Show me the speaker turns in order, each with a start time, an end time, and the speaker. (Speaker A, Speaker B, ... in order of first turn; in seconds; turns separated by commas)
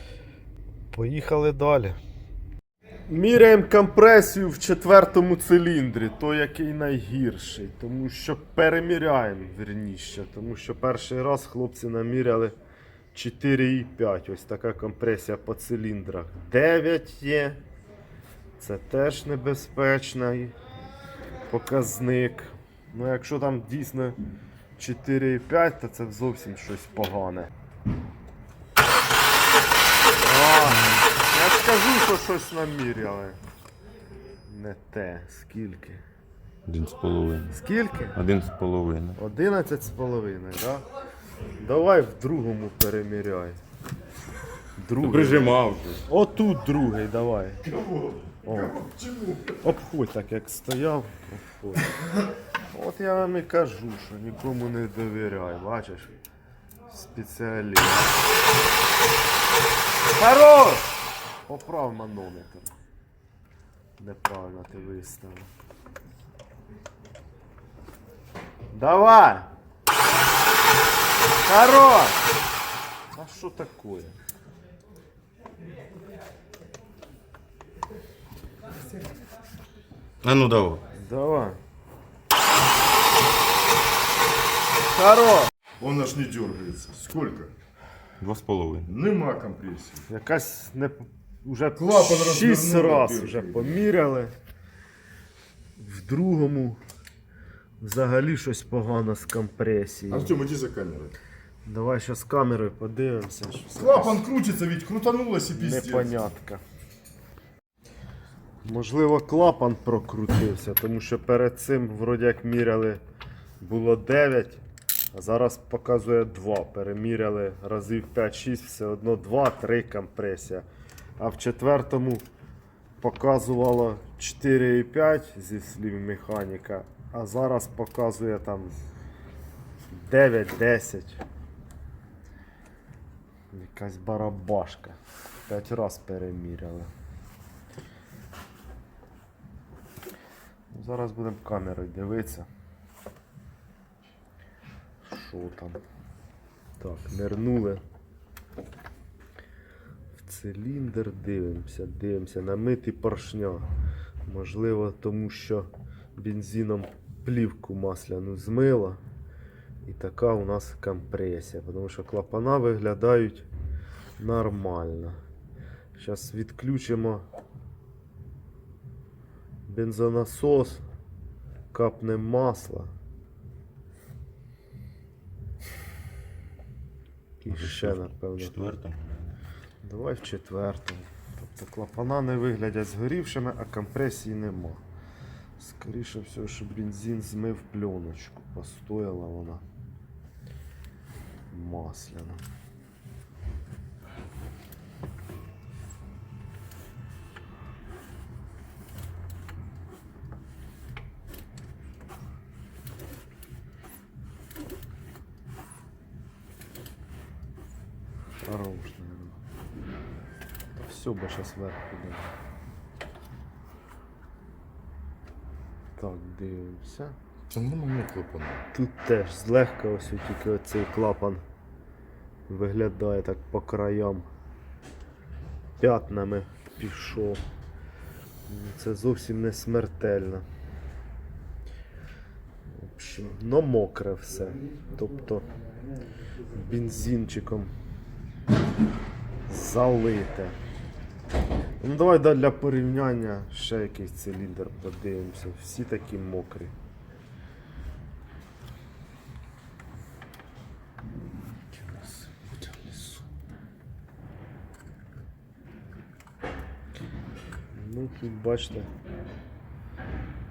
Speaker A: 0.9-2.0, Speaker A: 3.1-12.6, Speaker A: 13.1-17.6, Speaker A: 18.6-20.6, Speaker A: 21.5-24.2, Speaker A: 24.8-27.5, Speaker A: 30.2-33.4, Speaker B: 30.8-31.0, Speaker A: 34.5-36.0, Speaker B: 36.7-37.5, Speaker A: 37.5-38.2, Speaker B: 38.1-39.2, Speaker A: 39.2-40.9, Speaker A: 41.6-43.6, Speaker A: 44.8-45.5, Speaker B: 45.0-46.1, Speaker A: 46.1-47.6, Speaker A: 48.4-48.8, Speaker A: 49.5-52.0, Speaker A: 52.7-56.1, Speaker A: 56.9-58.2, Speaker A: 60.1-61.0, Speaker A: 61.5-62.7, Speaker A: 64.0-65.5, Speaker A: 68.7-69.5, Speaker A: 71.4-72.2, Speaker A: 73.1-74.2, Speaker B: 80.2-80.8, Speaker A: 80.9-81.6, Speaker A: 84.9-85.5, Speaker C: 85.8-87.5, Speaker B: 88.2-88.9, Speaker C: 88.8-90.0, Speaker A: 90.1-94.3, Speaker C: 91.8-93.8, Speaker A: 95.8-96.8, Speaker A: 97.8-100.4, Speaker C: 100.1-101.2, Speaker A: 101.7-104.2, Speaker C: 103.8-106.2, Speaker A: 105.5-106.6, Speaker A: 108.6-113.0, Speaker A: 113.6-120.7, Speaker A: 121.2-122.2, Speaker A: 123.0-128.8, Speaker A: 129.9-131.2, Speaker A: 133.5-136.9, Speaker A: 140.7-142.5, Speaker A: 145.0-145.8, Speaker A: 146.8-147.8, Speaker A: 150.2-153.7, Speaker A: 154.3-159.0, Speaker A: 159.8-163.5, Speaker A: 164.2-165.2, Speaker A: 166.0-167.2, Speaker A: 169.7-170.8, Speaker A: 171.7-172.9, Speaker A: 177.4-178.8, Speaker B: 177.5-179.4, Speaker A: 179.8-184.8, Speaker A: 185.6-189.6, Speaker A: 191.5-192.4, Speaker A: 208.4-209.4, Speaker A: 210.8-212.3, Speaker A: 216.0-217.2, Speaker C: 217.5-218.6, Speaker A: 218.7-221.4, Speaker A: 222.5-224.3, Speaker A: 225.8-227.4, Speaker A: 228.5-230.4, Speaker A: 232.7-235.5, Speaker A: 236.5-237.7, Speaker A: 239.5-240.6, Speaker A: 241.8-246.7, Speaker B: 251.7-253.2, Speaker A: 257.7-258.9